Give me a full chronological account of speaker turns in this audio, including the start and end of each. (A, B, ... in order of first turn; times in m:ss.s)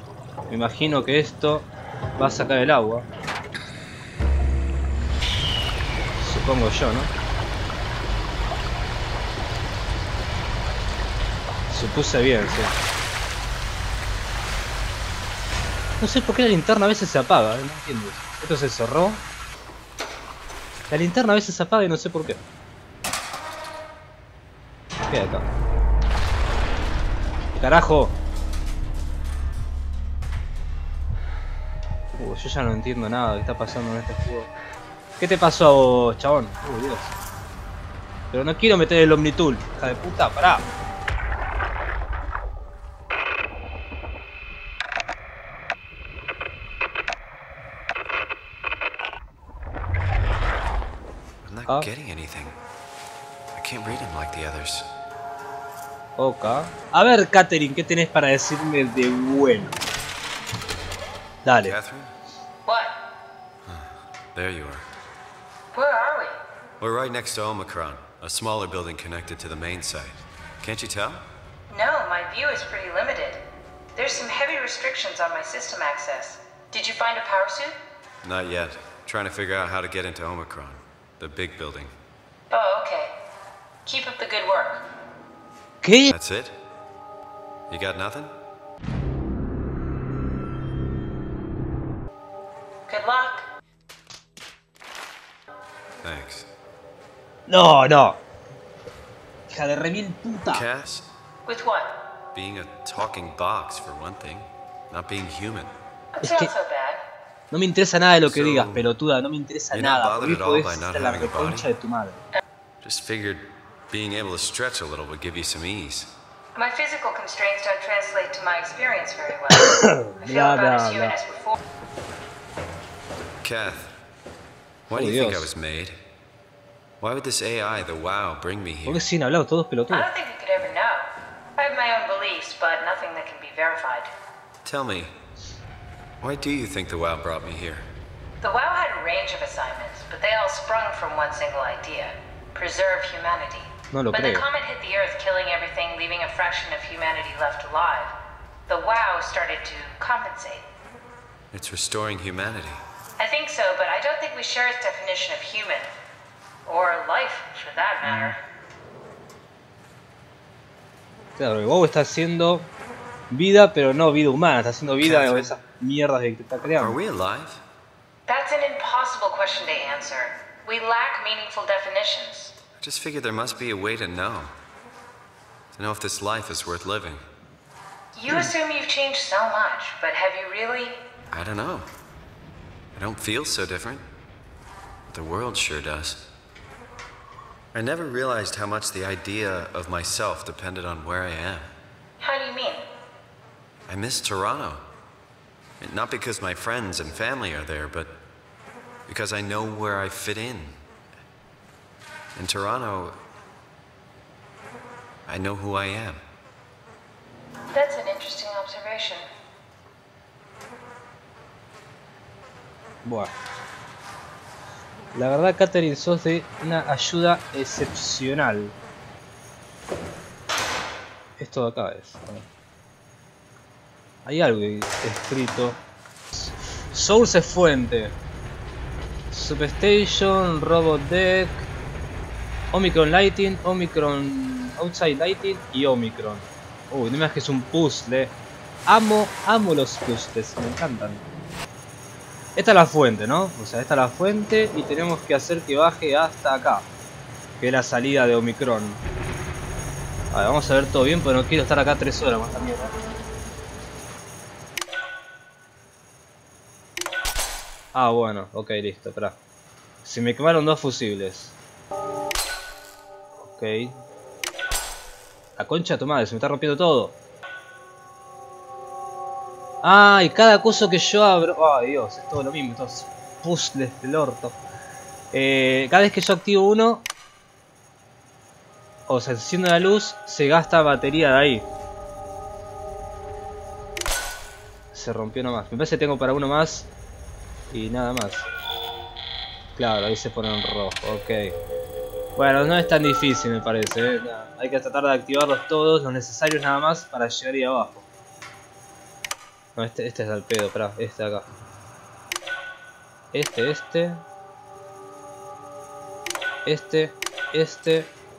0:00.5-0:03.0 A
0:06.2-0:07.1 A
0:11.7-0:12.7 A
0:16.0-0:19.2 A
0:20.9-0:22.4 A
0:25.1-0:25.4 A
0:27.6-0:28.2 A
0:32.1-0:34.5 A
0:35.2-0:37.1 A
0:38.3-0:40.6 A
0:51.4-0:52.6 B
0:53.5-0:54.8 B
0:56.2-0:59.8 A
1:01.4-1:01.7 A
1:01.6-1:02.1 B
1:02.6-1:03.0 C
1:03.6-1:04.8 B
1:05.7-1:06.4 C
1:06.8-1:11.2 B
1:11.7-1:13.4 C
1:13.9-1:17.8 C
1:18.2-1:21.9 B
1:22.5-1:23.1 C
1:23.8-1:24.8 C
1:25.8-1:26.1 A
1:26.1-1:26.5 B
1:27.7-1:28.3 B
1:32.9-1:33.4 C
1:36.0-1:36.4 B
1:37.5-1:38.2 A
1:39.5-1:40.6 A
1:40.5-1:41.0 B
1:41.4-1:42.0 C
1:42.3-1:45.7 B
1:46.1-1:47.0 C
1:46.2-1:46.5 A
1:47.5-1:52.2 A
1:48.3-1:48.8 B
1:49.7-1:51.7 B
1:52.8-1:56.1 B
1:56.5-2:01.6 C
1:59.5-2:01.1 A
2:03.4-2:03.9 B
2:04.9-2:05.9 B
2:04.9-2:05.5 A
2:07.0-2:09.0 B
2:08.8-2:10.1 A
2:09.9-2:14.1 C
2:14.6-2:15.1 B
2:16.2-2:17.8 B
2:18.4-2:28.1 C
2:23.9-2:24.4 A
2:28.7-2:30.7 C
2:31.5-2:32.8 B
2:33.2-2:35.9 C
2:36.6-2:38.4 C
2:41.4-2:42.7 A
2:43.3-2:47.0 A
2:45.0-2:45.6 B
2:46.6-2:47.6 B
2:48.3-2:52.6 C
2:52.8-2:54.5 B
2:55.7-2:57.2 B
2:58.1-3:01.0 C
3:01.3-3:01.8 B
3:02.9-3:04.0 B
3:05.1-3:06.2 B
3:07.7-3:11.7 B
3:12.2-3:12.8 C
3:13.9-3:14.8 B
3:15.8-3:18.2 B
3:19.1-3:20.8 B
3:22.4-3:23.2 B
3:25.3-3:26.2 B
3:27.7-3:29.2 C
3:33.0-3:33.3 A
3:35.1-3:38.7 A
3:41.4-3:42.4 A
3:44.2-3:45.8 A
3:46.3-3:48.1 A
3:49.3-3:51.6 A
3:52.7-3:58.3 A
3:58.9-4:01.2 A
4:02.6-4:06.9 A
4:07.6-4:09.0 A
4:10.3-4:13.0 A
4:17.9-4:19.4 A
4:20.0-4:21.5 A
4:23.3-4:24.0 A
4:25.6-4:27.1 A
4:29.8-4:34.6 A
4:35.3-4:37.0 A
4:39.1-4:41.7 A
4:44.9-4:46.9 A
4:47.7-4:48.5 A
4:49.8-4:51.6 A
4:52.4-4:58.0 A
4:59.8-5:01.4 A
5:03.3-5:04.2 A
5:06.6-5:08.1 A